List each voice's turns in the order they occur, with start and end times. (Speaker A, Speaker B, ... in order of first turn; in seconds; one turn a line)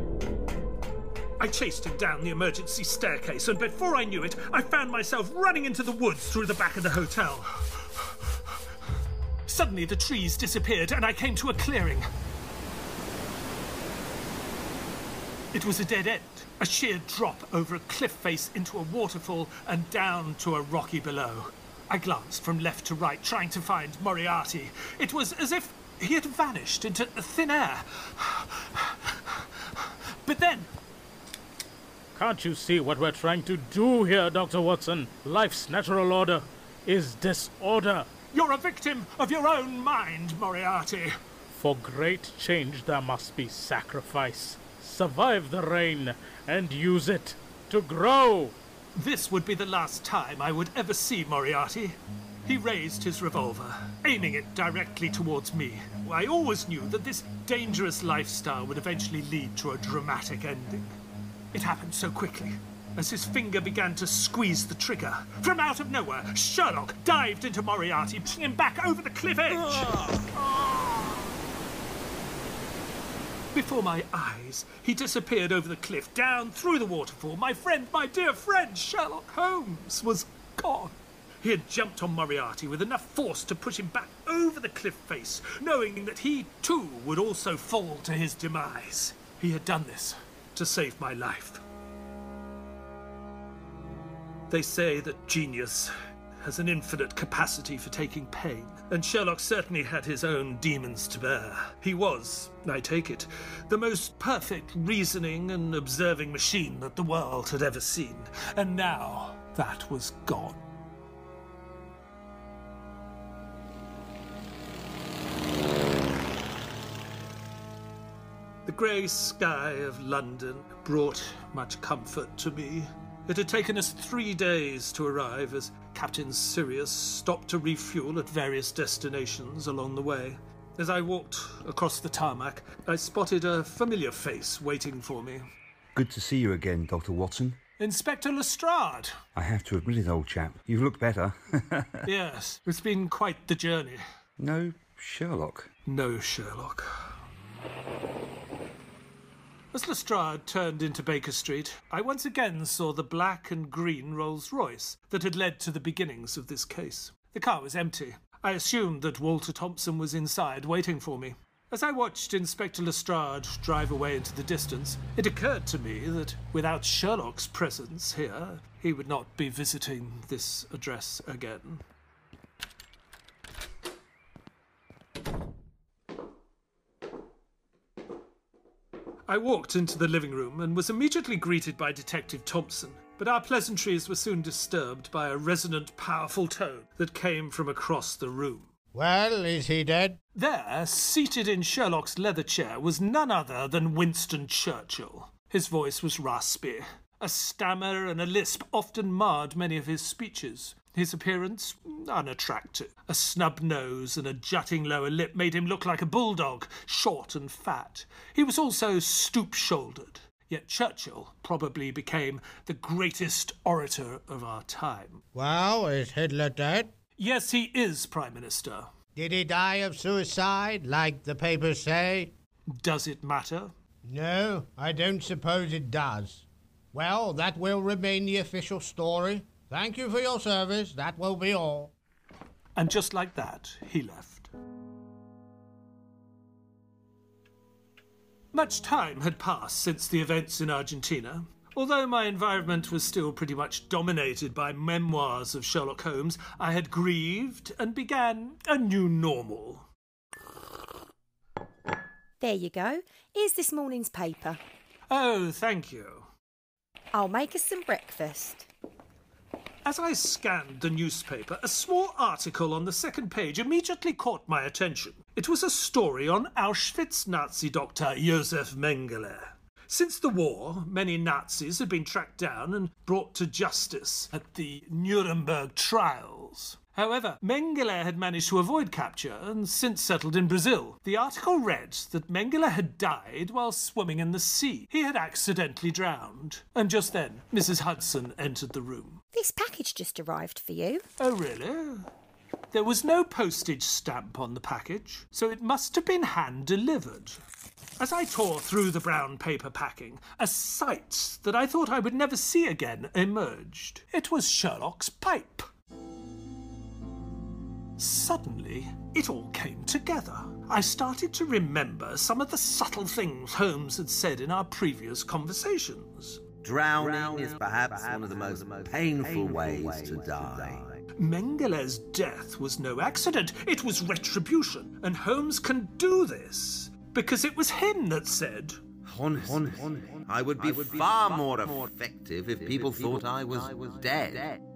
Speaker A: 1.4-8.5
Speaker A: 9.4-12.1
Speaker A: 15.5-30.7
Speaker B: 32.1-38.1
Speaker A: 38.3-41.2
Speaker B: 41.5-48.5
Speaker A: 48.9-61.0
Speaker A: 61.5-70.0
Speaker C: 69.7-70.4
Speaker A: 70.6-70.8
Speaker A: 73.5-91.6
Speaker A: 94.5-110.6
Speaker A: 118.7-135.4
Speaker D: 135.9-137.6
Speaker A: 137.8-139.2
Speaker D: 139.3-142.0
Speaker A: 142.1-144.0
Speaker D: 144.4-145.7
Speaker A: 145.9-147.1
Speaker A: 149.7-171.8
Speaker A: 179.3-188.7
Speaker E: 188.9-190.2
Speaker A: 190.3-215.2
Speaker E: 215.3-216.9
Speaker A: 217.2-218.9
Speaker E: 219.2-222.3
Speaker A: 222.8-223.7
Speaker E: 224.1-231.9
Speaker A: 232.8-234.5
Speaker A: 238.5-249.9
Speaker F: 252.4-254.6
Speaker A: 255.1-256.3
Speaker F: 257.1-258.7
Speaker A: 259.9-289.2
Speaker F: 289.3-291.0
Speaker A: 291.2-292.1
Speaker A: 292.7-297.4
Speaker A: 298.0-305.7
Speaker A: 308.0-316.4
Speaker C: 316.6-321.0
Speaker A: 321.2-328.8
Speaker C: 329.0-334.6